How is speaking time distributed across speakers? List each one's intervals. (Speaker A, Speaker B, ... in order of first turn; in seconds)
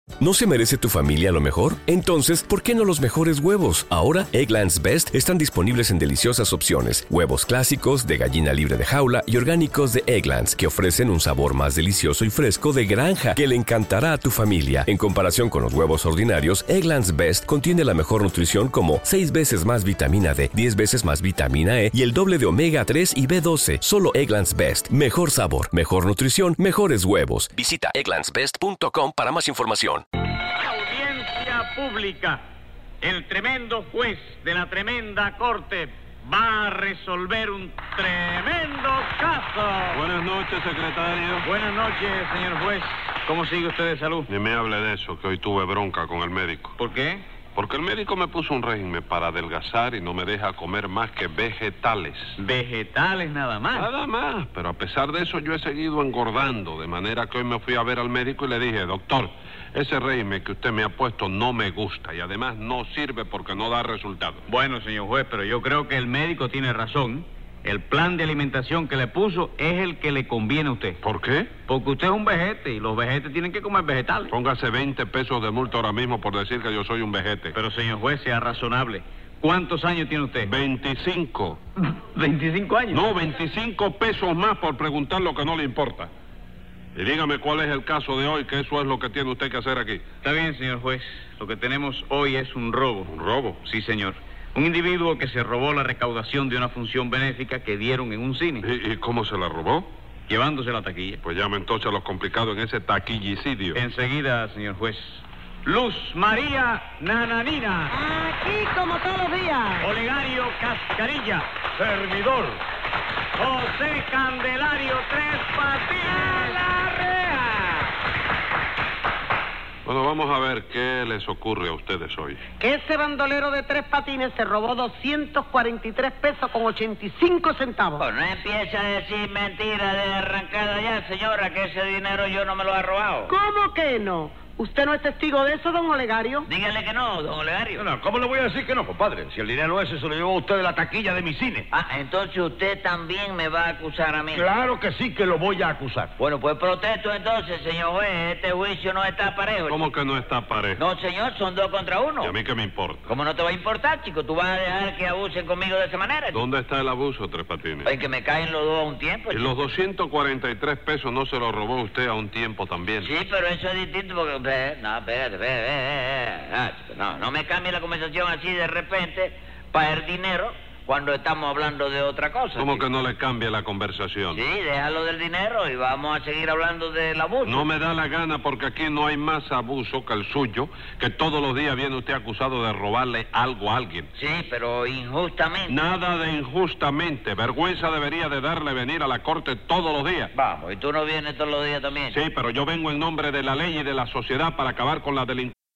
Speaker A: 0.2-30.0
Speaker B: 30.6-32.4, 33.0-40.0, 41.4-44.3, 46.8-47.2, 52.4-53.9, 64.5-71.0, 71.7-74.3, 77.5-80.5, 82.1-83.0, 90.2-93.1, 93.6-98.7, 100.3-101.2, 103.8-107.9, 109.8-112.6, 113.4-117.7
Speaker C: 39.9-41.5, 44.3-46.8, 47.5-52.4, 53.7-64.4, 71.0-71.5, 74.3-77.6, 80.4-81.6, 82.9-86.1, 87.0-90.0, 93.0-93.6, 98.6-99.9, 101.2-103.8, 119.8-122.4, 149.7-150.8, 152.2-153.1, 156.3-157.9, 159.3-163.2, 172.6-174.4, 177.4-184.1, 185.7-190.3, 192.1-195.5
Speaker D: 107.9-109.8, 122.6-127.8, 133.4-136.3
Speaker E: 128.0-133.3, 136.4-137.8, 141.7-144.5, 146.2-149.8, 150.8-152.3, 153.1-156.4, 157.8-159.5, 163.0-172.8, 174.3-177.7, 184.2-185.8, 190.3-192.2
Speaker F: 137.8-141.7, 144.3-146.1